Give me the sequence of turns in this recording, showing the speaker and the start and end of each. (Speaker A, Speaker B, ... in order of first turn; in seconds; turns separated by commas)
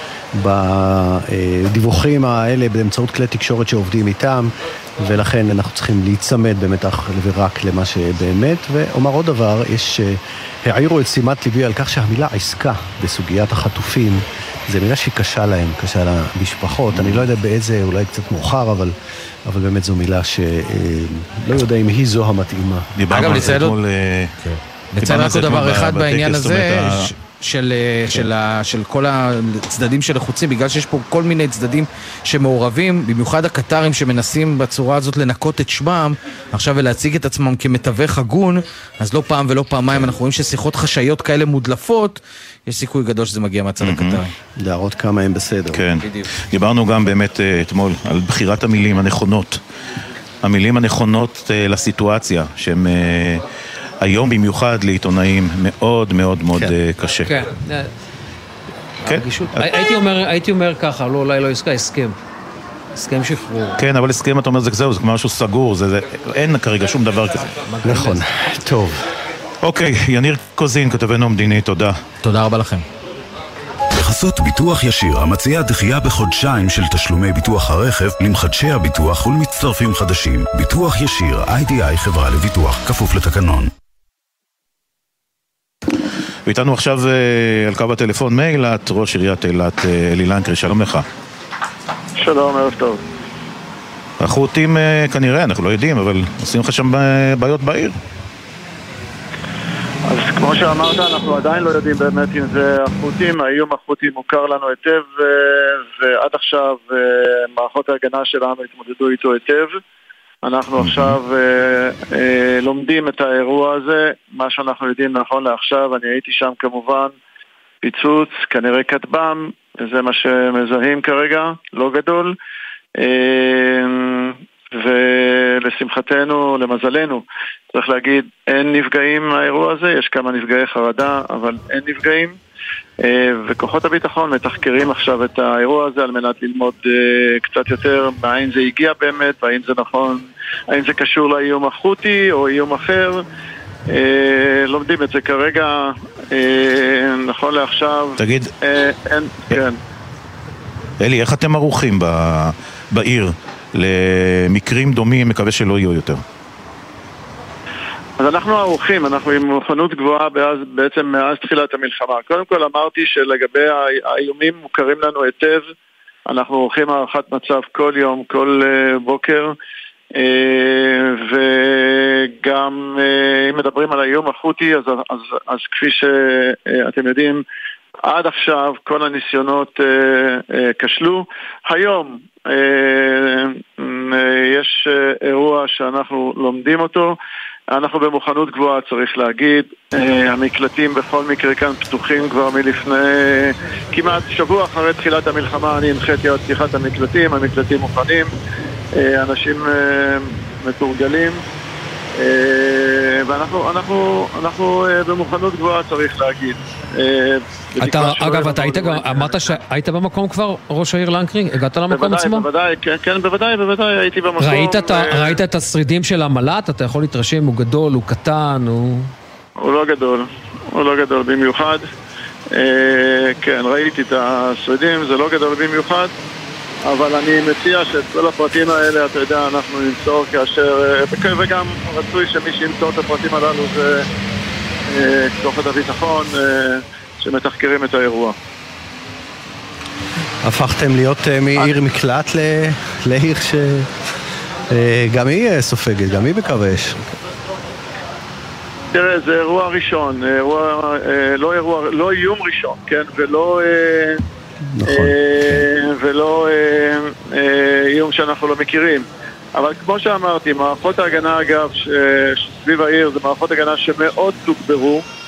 Speaker A: 0.3-18.9, Speaker B: 16.9-17.3, Speaker A: 19.5-22.9, Speaker B: 22.9-24.3, Speaker C: 23.1-23.8, Speaker C: 25.0-44.3, Speaker B: 25.0-27.1, Speaker B: 43.8-44.2, Speaker A: 44.6-45.9, Speaker B: 45.7-49.6, Speaker B: 50.4-53.4, Speaker B: 54.0-57.3, Speaker D: 57.2-57.9, Speaker D: 59.0-62.2, Speaker B: 59.1-59.6, Speaker D: 62.9-63.8, Speaker B: 63.8-67.5, Speaker D: 67.6-68.2, Speaker A: 67.8-69.0, Speaker B: 69.6-72.0, Speaker C: 72.2-72.8, Speaker E: 74.0-83.7, Speaker B: 86.5-91.0, Speaker F: 92.2-93.0, Speaker B: 94.2-98.0, Speaker F: 100.1-109.8, Speaker F: 110.5-117.1, Speaker B: 110.8-111.2, Speaker F: 117.8-122.3, Speaker F: 123.0-132.4, Speaker F: 133.0-143.2, Speaker F: 143.9-149.8, Speaker B: 148.2-148.5, Speaker B: 151.0-156.2, Speaker F: 158.2-165.6, Speaker F: 166.3-169.6, Speaker F: 170.2-177.4, Speaker F: 178.1-187.2, Speaker F: 187.7-198.3, Speaker F: 199.0-201.4, Speaker F: 202.2-209.5, Speaker D: 207.8-212.5, Speaker F: 211.9-215.4, Speaker D: 214.4-219.1, Speaker F: 219.6-221.9, Speaker F: 222.5-226.1, Speaker F: 226.8-234.1, Speaker F: 234.9-238.4, Speaker A: 240.4-243.9, Speaker A: 244.7-247.0, Speaker F: 248.9-254.2, Speaker A: 254.7-255.6, Speaker F: 254.9-265.0